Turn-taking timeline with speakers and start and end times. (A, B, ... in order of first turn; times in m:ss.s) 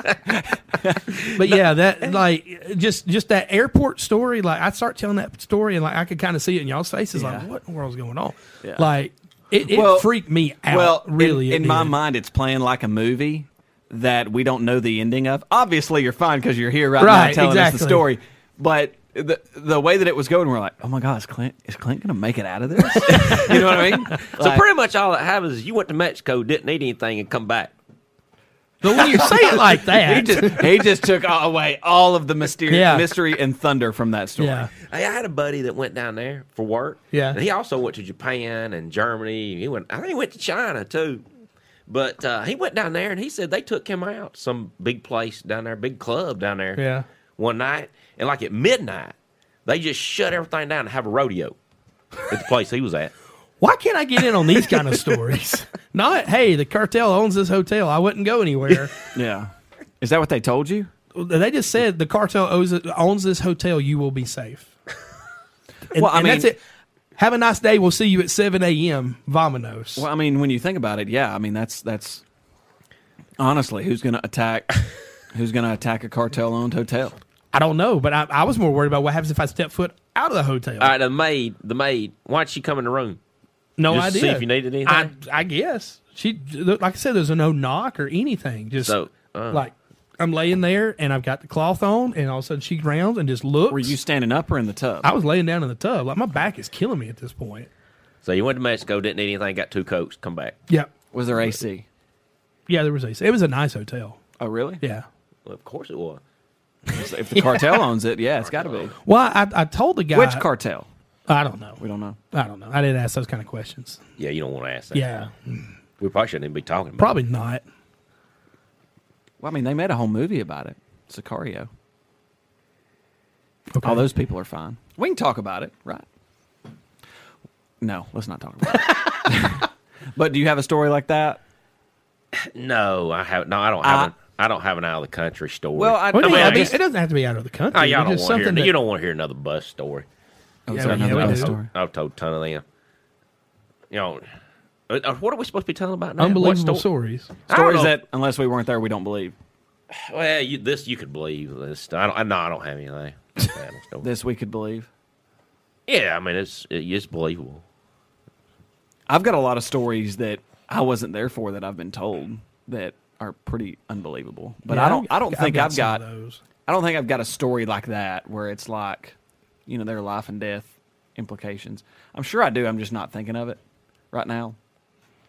0:00.2-0:01.6 A
0:01.3-0:11.9 B
0:07.1-0:07.5 A
0:08.6-0:08.9 A
0:09.7-0:10.1 A
0:10.7-0:24.6 A
0:17.0-0:18.0 B
0:22.9-0:23.6 B
0:23.3-0:23.6 C
0:24.2-0:27.7 C
0:28.8-0:30.8 B
0:29.2-0:34.7 A
0:32.7-0:33.1 B
0:34.4-0:34.7 B
0:34.8-0:41.2 C
0:37.1-0:37.4 B
0:41.9-0:46.8 C
0:46.8-0:47.0 B
0:47.4-0:49.1 C
0:49.6-0:51.6 C
0:52.2-0:53.1 C
0:53.6-0:59.0 B
0:59.1-1:00.9 A
1:01.1-1:04.7 B
1:05.9-1:06.6 B
1:06.0-1:06.5 A
1:07.2-1:10.0 B
1:09.9-1:12.2 A
1:13.4-1:17.2 A
1:17.5-1:20.9 B
1:20.8-1:23.2 C
1:23.8-1:29.0 B
1:23.9-1:25.1 C
1:28.8-1:29.6 C
1:29.5-1:34.0 B
1:33.7-1:35.1 A
1:35.0-1:37.7 B
1:38.2-1:40.6 C
1:41.1-1:41.9 A
1:42.7-1:44.2 B
1:44.4-1:44.8 A
1:45.4-1:46.2 C
1:46.9-1:47.8 B
1:46.9-1:48.9 A
1:48.4-1:48.9 C
1:49.0-1:50.4 B
1:50.1-1:50.9 A
1:51.3-1:51.8 B
1:51.8-1:52.2 A
1:52.3-1:54.0 B
1:54.2-1:55.0 C
1:54.9-1:55.7 B
1:56.0-1:57.2 C
1:57.0-1:57.6 B
1:59.4-2:01.7 A
2:03.7-2:04.0 B
2:03.8-2:06.0 A
2:07.8-2:11.4 A
2:12.3-2:16.8 C
2:13.8-2:14.1 A
2:15.8-2:16.8 A
2:16.1-2:18.7 B
2:17.7-2:20.0 C
2:20.7-2:21.7 A
2:20.7-2:21.6 B
2:20.8-2:22.6 C
2:23.9-2:24.2 C
2:24.9-2:26.9 C
2:26.2-2:27.3 B
2:27.5-2:27.9 C
2:27.5-2:29.3 A
2:29.9-2:34.1 C
2:34.0-2:34.9 A
2:35.9-2:37.6 C
2:39.1-2:46.0 A
2:44.7-2:46.4 B
2:46.7-2:49.2 A
2:49.7-2:53.6 A
2:54.1-2:54.6 A